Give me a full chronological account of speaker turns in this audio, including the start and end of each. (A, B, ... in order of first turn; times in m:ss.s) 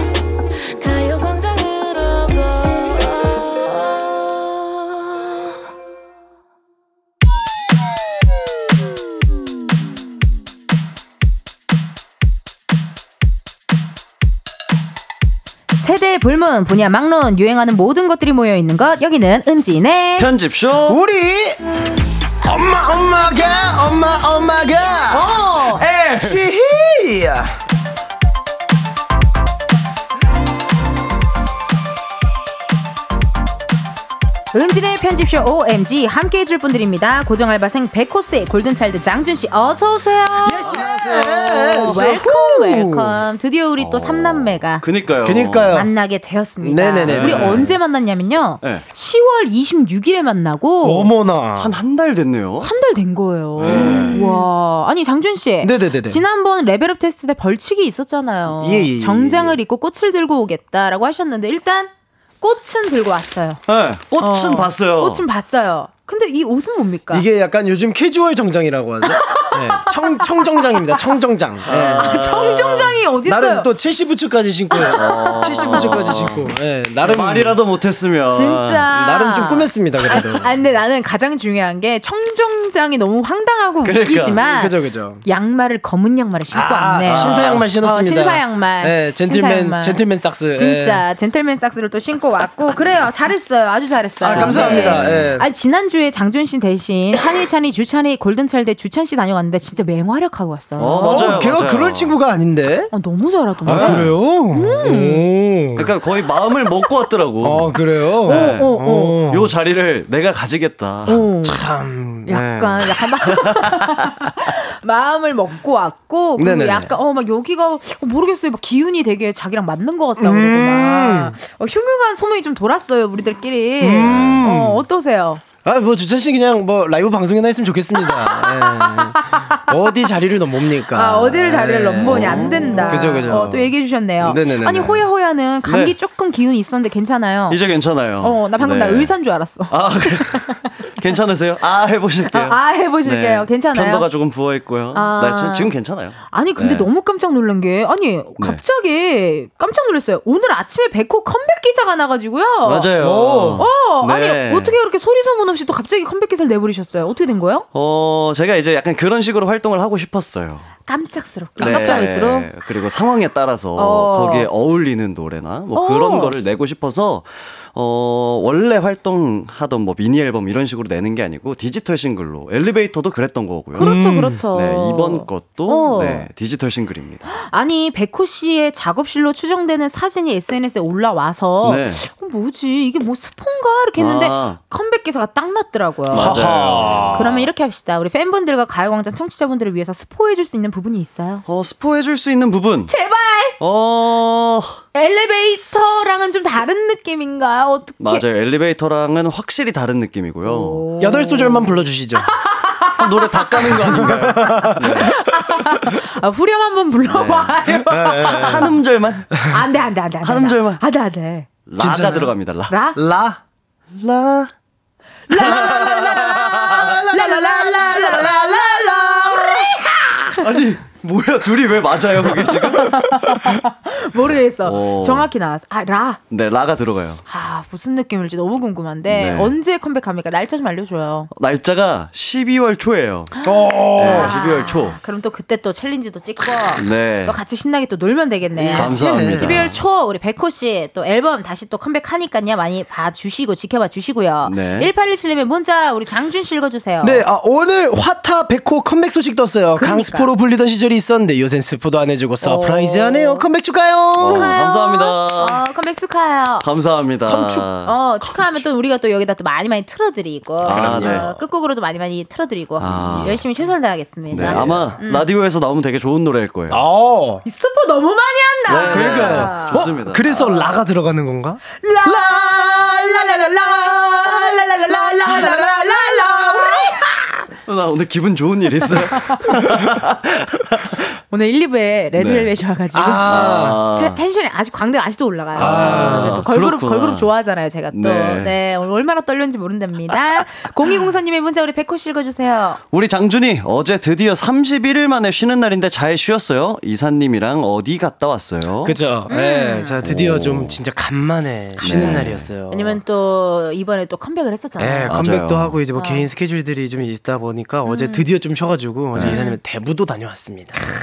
0:00.8-0:03.2 A
0:15.7-0:20.3 B
0:20.2-0:21.0 C
0:20.9-0:21.6 D
0:22.4-0:25.4 D
0:25.1-0:25.9 B
0:25.7-0:26.4 C
0:25.9-0:27.5 D
0:34.5-0:44.9 B
0:40.4-0:43.2 D
0:40.6-0:42.1 C
0:43.8-0:45.8 C
0:45.2-0:45.9 D
0:45.7-0:51.1 B
0:46.6-0:47.7 D
0:47.0-0:47.8 C
0:50.8-0:51.8 D
0:51.6-0:52.7 C
0:52.6-1:03.6 B
0:53.6-0:54.3 C
0:53.6-0:54.4 D
0:55.6-0:56.2 D
0:58.5-0:59.6 D
1:03.7-1:05.2 C
1:04.2-1:07.3 B
1:07.1-1:12.3 D
1:09.0-1:10.0 B
1:10.6-1:11.0 B
1:11.6-1:13.0 C
1:11.9-1:13.7 B
1:13.2-1:17.6 D
1:14.7-1:16.2 B
1:14.8-1:18.9 C
1:18.3-1:41.5 B
1:18.9-1:20.5 D
1:23.8-1:24.5 C
1:24.4-1:25.2 D
1:26.5-1:31.0 D
1:27.0-1:27.7 C
1:34.2-1:35.4 C
1:34.2-1:35.4 D
1:40.8-1:42.2 C
1:40.9-1:42.9 D
1:42.9-1:45.3 B
1:43.6-1:46.0 D
1:43.7-1:44.2 C
1:45.8-1:51.3 C
1:47.4-1:49.5 D
1:48.2-1:49.3 B
1:51.1-1:51.6 B
1:51.4-1:53.0 D
1:52.3-2:05.4 B
1:53.3-1:53.9 C
1:56.4-1:56.9 D
2:00.2-2:01.4 D
2:03.8-2:04.8 D
2:04.1-2:04.4 C
2:05.6-2:15.1 D
2:08.0-2:09.9 B
2:10.9-2:17.6 B
2:11.9-2:13.2 C
2:15.6-2:16.0 C
2:17.5-2:19.1 C
2:18.2-2:20.7 B
2:19.7-2:26.9 C
2:22.3-2:24.1 B
2:24.9-2:25.7 B
2:26.3-2:32.9 B
2:32.6-2:34.8 C
2:32.9-2:33.7 D
2:33.6-2:37.7 B
2:37.7-2:40.7 C
2:40.9-2:42.5 B
2:41.6-2:57.3 C
2:41.6-2:42.2 D
2:43.8-2:44.5 B
2:45.7-2:46.3 B
2:53.8-2:54.5 D
2:53.8-2:56.3 B
2:57.3-3:06.4 B
3:01.6-3:02.0 C
3:04.0-3:04.6 C
3:06.1-3:07.5 C
3:06.1-3:07.4 D
3:07.1-3:11.4 B
3:11.5-3:12.9 C
3:12.9-3:13.6 B
3:13.6-3:14.8 C
3:14.9-3:18.2 B
3:18.0-3:21.0 C
3:20.4-3:24.1 B
3:21.0-3:22.3 D
3:23.0-3:25.2 C
3:23.9-3:25.1 D
3:24.8-3:28.7 B
3:27.1-3:29.3 C
3:27.8-3:29.6 D
3:29.5-3:31.5 B
3:30.2-3:30.8 C
3:31.7-3:32.8 C
3:31.8-3:32.3 D
3:32.7-3:33.0 B
3:32.9-3:33.4 D
3:33.9-3:34.5 C
3:35.3-3:40.4 B
3:35.3-3:37.0 C
3:35.5-3:35.8 D
3:36.7-3:39.6 D
3:40.3-3:43.4 C
3:42.3-3:46.2 B
3:44.6-3:45.3 C
3:46.3-3:47.2 C
3:47.3-3:51.3 B
3:49.1-3:49.5 C
3:51.3-3:53.4 C
3:53.4-4:07.3 B
3:53.4-3:54.5 D
3:54.0-3:55.0 C
3:56.8-3:57.4 C
3:58.6-3:59.8 D
3:58.7-3:59.8 C
4:04.4-4:04.9 C
4:07.0-4:14.6 D
4:09.8-4:10.3 B
4:12.4-4:13.5 B
4:14.2-4:15.6 C
4:14.2-4:16.7 B
4:16.6-4:18.5 C
4:17.3-4:17.8 D
4:17.8-4:25.3 B
4:20.6-4:21.3 C
4:20.6-4:21.3 D
4:22.8-4:23.4 C
4:24.3-4:26.8 C
4:24.3-4:24.9 D
4:26.7-4:27.4 D
4:27.4-4:30.7 B
4:28.7-4:30.5 C
4:28.8-4:36.8 D
4:31.7-4:37.4 B
4:37.6-4:41.0 C
4:39.0-4:39.6 B
4:41.3-4:52.8 B
4:42.2-4:42.5 C
4:42.9-4:43.8 D
4:43.1-4:44.2 C
4:45.6-4:47.3 C
4:45.6-4:46.5 D
4:47.9-4:48.6 C
4:52.9-4:59.0 C
4:58.8-5:03.0 D
4:59.3-5:00.0 B
5:00.0-5:00.8 C
5:01.8-5:02.5 C
5:01.9-5:02.2 B
5:02.7-5:05.2 B
5:04.8-5:10.8 D
5:05.1-5:05.8 C
5:05.9-5:06.3 B
5:07.8-5:08.3 B
5:09.1-5:09.5 C
5:09.2-5:09.6 B